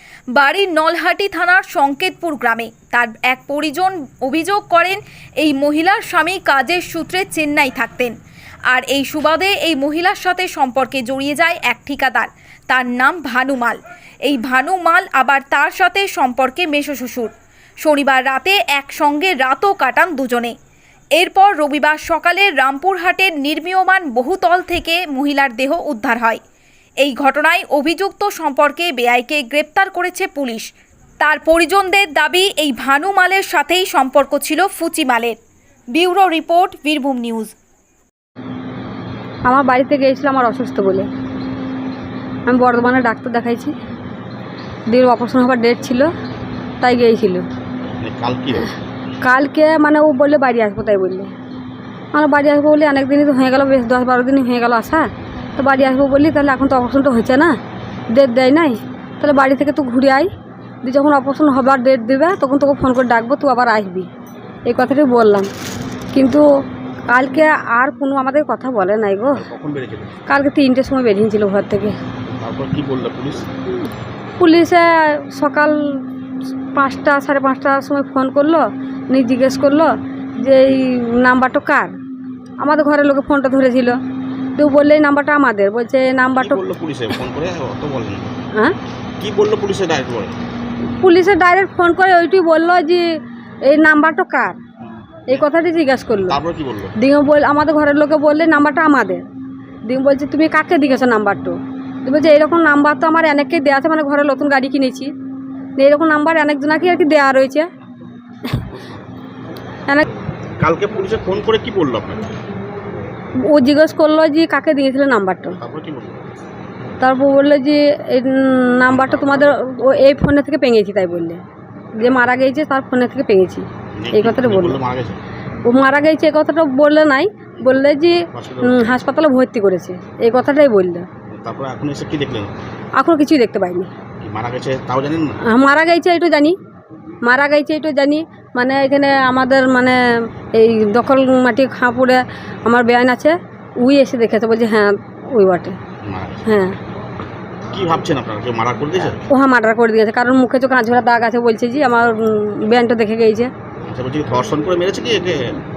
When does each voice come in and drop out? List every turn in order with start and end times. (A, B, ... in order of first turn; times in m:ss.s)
0:00.3-0:08.1 A
0:08.7-0:20.6 A
0:21.2-0:26.4 A
0:27.0-0:35.4 A
0:35.9-0:37.6 A
0:39.4-0:41.1 B
0:42.5-0:43.7 B
0:44.9-0:46.1 B
0:46.8-0:47.5 B
0:48.0-0:48.7 C
0:49.2-0:51.3 B
0:52.1-0:57.6 B
0:58.1-1:00.3 B
1:00.8-1:04.1 B
1:04.7-1:05.5 B
1:06.1-1:06.4 B
1:07.1-1:09.4 B
1:09.3-1:10.2 C
1:10.3-1:12.0 B
1:12.3-1:13.5 C
1:14.4-1:16.0 B
1:16.8-1:22.0 B
1:22.6-1:24.0 B
1:24.6-1:26.6 B
1:26.3-1:28.4 C
1:29.2-1:30.3 C
1:31.0-1:34.6 B
1:35.3-1:36.4 B
1:36.3-1:36.9 C
1:37.0-1:39.2 B
1:39.8-1:45.1 B
1:45.8-1:47.7 B
1:50.6-1:52.3 C
1:53.4-1:55.6 B
1:55.5-1:56.2 C
1:57.0-2:01.4 B
1:58.9-1:59.5 C
2:02.0-2:04.8 B
2:04.0-2:05.2 C
2:05.7-2:11.1 B
2:08.3-2:09.1 C
2:11.3-2:12.6 C
2:13.0-2:13.9 B
2:14.2-2:15.4 C
2:15.5-2:16.6 B
2:17.2-2:25.8 B
2:26.0-2:26.5 C
2:26.5-2:26.8 B
2:27.7-2:29.2 C
2:29.3-2:33.5 B
2:33.9-2:35.6 C